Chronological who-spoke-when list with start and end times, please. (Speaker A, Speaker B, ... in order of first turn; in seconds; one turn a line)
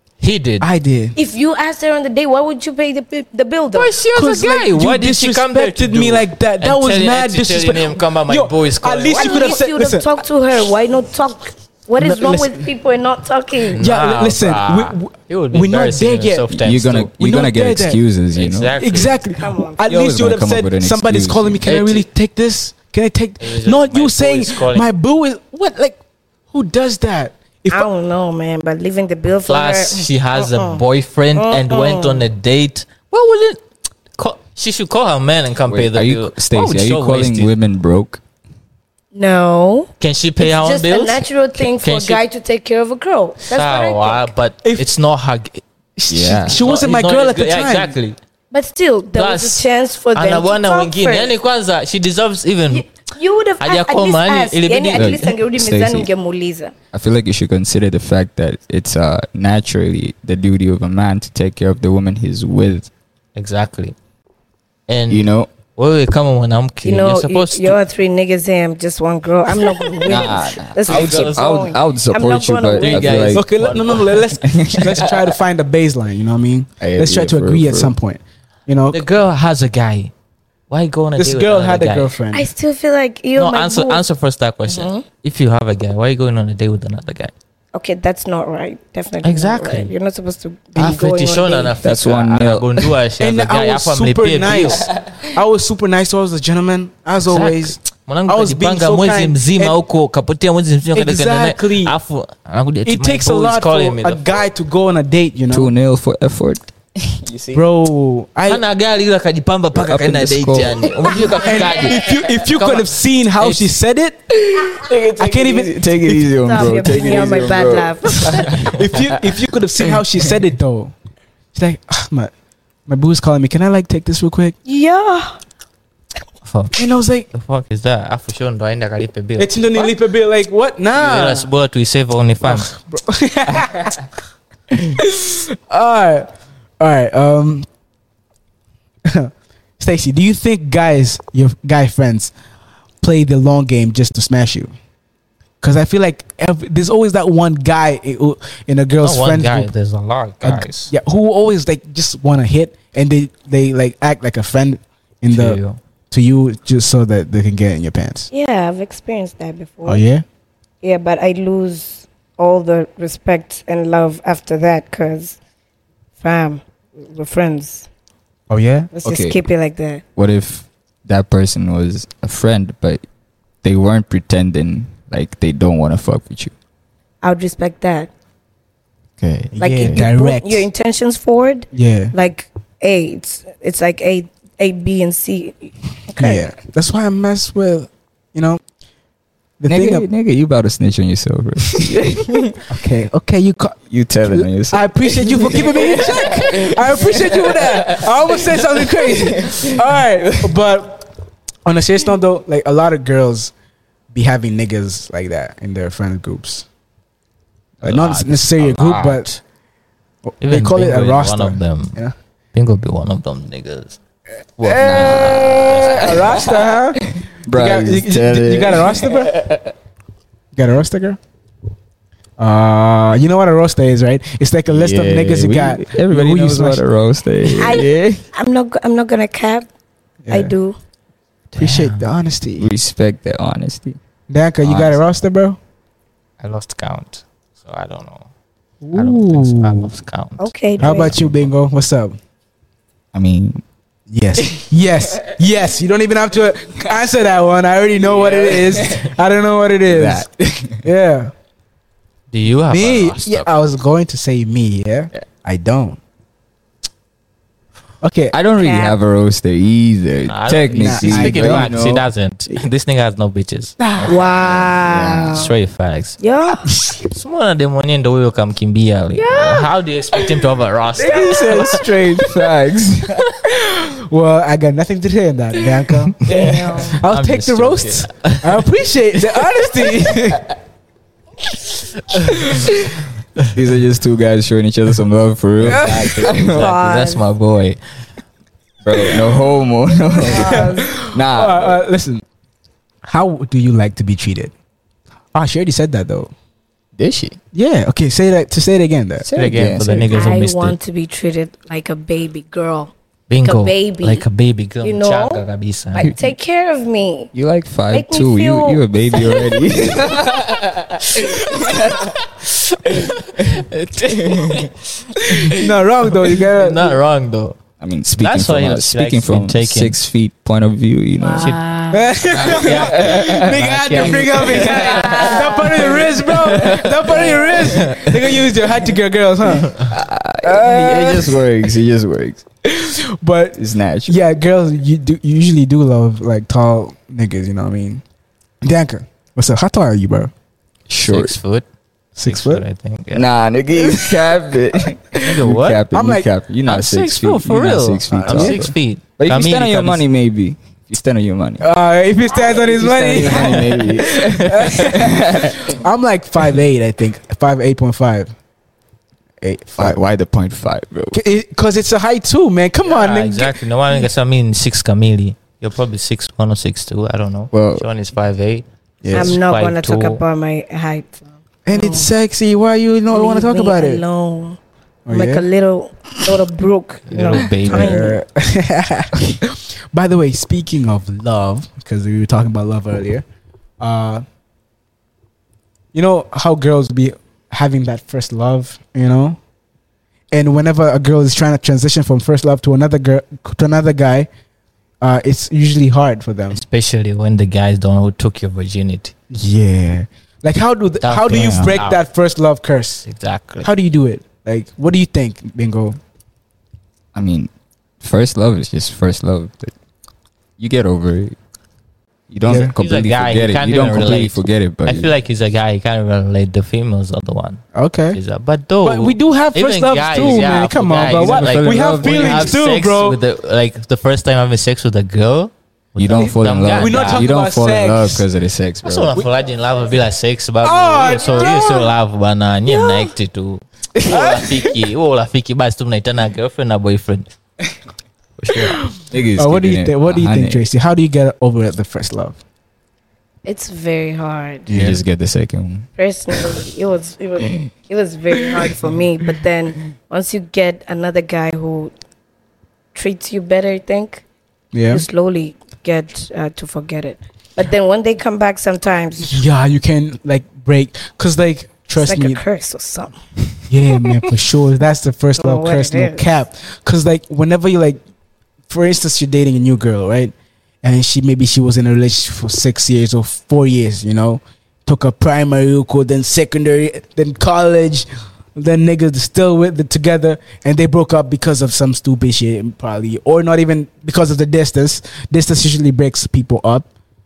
Speaker A: 0.2-0.7
Speaker B: 0.6-1.2
Speaker C: 1.2-4.0
Speaker A: 3.7-9.5
Speaker B: 4.1-10.2
Speaker C: 9.1-13.9
Speaker B: 12.0-12.7
Speaker A: 13.7-17.1
Speaker B: 13.8-16.5
Speaker D: 16.5-18.7
Speaker B: 17.2-18.0
Speaker A: 18.4-19.2
Speaker B: 18.8-26.0
Speaker C: 19.4-19.8
Speaker D: 19.9-21.7
Speaker A: 21.6-22.1
Speaker A: 23.4-24.9
Speaker B: 26.5-27.9
Speaker C: 27.7-30.8
Speaker A: 29.5-33.6
Speaker C: 31.4-32.2
Speaker A: 34.2-37.5
Speaker D: 35.7-38.2
Speaker C: 39.1-44.3
Speaker A: 40.0-42.2
Speaker A: 43.4-45.6
Speaker B: 46.0-48.0
Speaker D: 46.1-46.6
Speaker A: 46.3-48.2
Speaker C: 48.5-51.3
Speaker A: 49.1-52.9
Speaker C: 52.7-56.7
Speaker A: 53.6-55.3
Speaker D: 54.9-56.1
Speaker D: 56.9-62.9
Speaker A: 63.4-64.0
Speaker A: 64.9-67.8
Speaker D: 65.1-65.5
Speaker C: 66.8-73.3
Speaker A: 69.6-70.3
Speaker D: 70.0-73.4
Speaker A: 70.9-71.6
Speaker A: 72.8-74.3
Speaker B: 73.3-79.0
Speaker D: 74.4-75.2
Speaker D: 76.8-78.0
Speaker A: 78.9-80.1
Speaker A: 80.7-82.1
Speaker B: 81.2-82.5
Speaker C: 82.3-84.0
Speaker A: 83.4-87.3
Speaker C: 84.7-85.0
Speaker C: 87.7-91.8
Speaker A: 89.2-89.9
Speaker A: 90.8-94.9
Speaker D: 91.8-92.9
Speaker B: 93.2-99.8
Speaker A: 97.2-104.3
Speaker B: 100.9-102.0
Speaker B: 102.8-105.7
Speaker D: 105.5-107.6
Speaker B: 107.5-108.6
Speaker A: 108.5-113.7
Speaker D: 109.8-112.2
Speaker B: 111.4-114.2
Speaker D: 114.4-120.0
Speaker B: 115.1-117.3
Speaker C: 116.4-118.7
Speaker B: 118.2-120.9
Speaker B: 121.5-122.3
Speaker B: 122.9-124.5
Speaker C: 124.7-125.4
Speaker A: 126.5-126.7
Speaker B: 126.8-127.3
Speaker A: 127.3-129.9
Speaker B: 129.4-131.5
Speaker A: 130.9-132.7
Speaker B: 132.4-134.0
Speaker B: 134.7-136.3
Speaker B: 136.8-137.7
Speaker B: 139.1-142.3
Speaker B: 143.0-144.7
Speaker B: 145.6-149.7
Speaker A: 149.0-150.9
Speaker B: 150.4-155.6
Speaker A: 155.3-155.8
Speaker B: 156.1-158.3
Speaker C: 158.3-160.0
Speaker B: 159.8-160.2
Speaker C: 160.8-165.4
Speaker C: 166.2-167.9
Speaker B: 168.5-168.9
Speaker C: 168.9-170.0
Speaker D: 169.1-169.4
Speaker D: 170.2-173.0
Speaker D: 173.6-176.5
Speaker C: 177.2-178.1
Speaker D: 179.2-180.1
Speaker B: 179.5-180.7
Speaker C: 179.6-186.5
Speaker B: 181.7-182.1
Speaker B: 186.2-188.6
Speaker B: 189.6-190.1
Speaker D: 189.7-192.6
Speaker B: 192.7-201.1
Speaker D: 193.9-200.4
Speaker B: 201.7-203.5
Speaker B: 204.1-206.7
Speaker B: 207.8-209.3
Speaker A: 207.8-209.4
Speaker B: 210.3-212.1
Speaker A: 210.4-212.0
Speaker A: 212.5-214.0
Speaker A: 214.6-216.6
Speaker B: 214.6-219.3
Speaker D: 214.7-219.7
Speaker B: 220.5-221.2
Speaker B: 222.4-226.8
Speaker D: 224.7-228.2
Speaker C: 227.5-229.7
Speaker B: 230.2-230.5
Speaker C: 230.3-230.8
Speaker A: 231.6-232.1
Speaker B: 231.6-232.7
Speaker D: 232.6-234.0
Speaker B: 234.3-235.6
Speaker D: 234.6-235.0
Speaker A: 236.4-238.3
Speaker B: 238.8-239.9
Speaker A: 238.9-240.5
Speaker C: 240.4-241.2
Speaker D: 240.8-241.4
Speaker B: 240.8-242.2
Speaker D: 243.1-243.6
Speaker B: 244.1-250.3
Speaker D: 248.1-249.0
Speaker D: 249.9-250.8
Speaker B: 250.8-251.3
Speaker A: 252.3-253.5
Speaker B: 252.7-256.0
Speaker B: 258.0-258.3
Speaker D: 258.3-262.1
Speaker C: 258.6-259.0
Speaker A: 260.3-263.8
Speaker B: 260.7-261.8
Speaker B: 263.8-264.2
Speaker C: 264.1-265.5
Speaker A: 264.9-266.2
Speaker C: 266.2-266.7
Speaker A: 267.1-271.9
Speaker C: 269.2-269.7
Speaker B: 271.0-272.5
Speaker D: 271.0-273.3
Speaker B: 273.4-276.2
Speaker A: 276.1-278.7
Speaker D: 276.3-276.9
Speaker C: 276.3-277.0
Speaker B: 276.9-280.6
Speaker A: 279.3-279.9
Speaker A: 282.1-282.5
Speaker B: 282.2-282.9
Speaker D: 283.5-286.7
Speaker A: 285.6-287.8
Speaker B: 285.6-286.3
Speaker C: 286.5-287.3
Speaker D: 288.8-291.8
Speaker B: 288.9-289.4
Speaker C: 290.1-290.9
Speaker B: 290.2-292.2
Speaker B: 293.1-294.5
Speaker B: 295.3-296.3
Speaker D: 297.0-297.4
Speaker B: 297.5-299.3
Speaker D: 299.2-300.3
Speaker A: 299.4-300.8
Speaker C: 300.1-304.2
Speaker A: 303.3-306.1
Speaker C: 304.8-307.3
Speaker D: 307.3-312.1
Speaker C: 307.9-309.6
Speaker A: 312.9-314.7
Speaker D: 312.9-314.7
Speaker B: 315.5-317.0
Speaker A: 316.3-317.6
Speaker D: 317.8-321.6
Speaker A: 318.2-320.0
Speaker C: 321.2-322.1
Speaker A: 321.3-321.6
Speaker B: 321.9-329.8
Speaker A: 322.4-328.4
Speaker D: 322.4-325.4
Speaker C: 324.6-326.0
Speaker D: 326.4-327.9
Speaker C: 327.1-327.5
Speaker D: 329.8-332.4
Speaker B: 330.4-331.7
Speaker B: 332.6-338.0
Speaker D: 333.6-334.2
Speaker B: 338.6-340.3
Speaker D: 340.9-341.4
Speaker A: 341.0-341.7
Speaker B: 342.2-342.6
Speaker A: 342.2-343.3
Speaker D: 343.1-351.6
Speaker B: 343.8-344.1
Speaker A: 345.2-345.8
Speaker B: 345.9-346.2
Speaker A: 346.7-350.0
Speaker B: 348.2-348.6
Speaker B: 351.6-358.3
Speaker D: 352.6-355.8
Speaker B: 359.4-360.0
Speaker D: 359.8-361.2
Speaker B: 361.1-363.6
Speaker A: 362.9-370.2
Speaker D: 367.5-367.9
Speaker B: 369.0-369.4
Speaker C: 369.1-372.1
Speaker B: 371.7-374.0
Speaker C: 373.1-378.2
Speaker B: 375.1-375.5
Speaker A: 377.1-378.1
Speaker B: 377.5-383.2
Speaker B: 383.8-384.2
Speaker B: 385.9-389.4
Speaker B: 390.3-394.3
Speaker B: 395.0-396.6
Speaker A: 396.5-399.1
Speaker B: 399.3-403.1
Speaker A: 401.0-402.0
Speaker D: 401.3-401.8
Speaker A: 403.1-403.7
Speaker B: 403.6-406.0
Speaker D: 407.1-407.5
Speaker D: 408.0-409.7
Speaker D: 410.6-411.4
Speaker D: 412.3-415.1
Speaker B: 412.4-412.7
Speaker A: 412.8-417.6
Speaker B: 417.8-418.2
Speaker A: 418.1-427.3
Speaker B: 418.8-423.2
Speaker D: 420.2-422.6
Speaker D: 426.0-429.2
Speaker B: 426.1-428.2
Speaker A: 428.8-437.3
Speaker B: 430.6-431.9
Speaker B: 434.0-434.8
Speaker A: 438.4-438.8
Speaker D: 439.1-440.7
Speaker B: 439.4-442.4
Speaker C: 443.4-444.7
Speaker B: 444.7-445.0
Speaker D: 444.7-446.6
Speaker C: 446.0-451.9
Speaker C: 452.9-454.2
Speaker B: 454.7-455.1
Speaker C: 454.9-459.4
Speaker B: 459.2-462.4
Speaker C: 461.9-463.2
Speaker B: 463.7-468.0
Speaker C: 464.0-464.2
Speaker C: 465.4-466.3
Speaker B: 468.7-486.9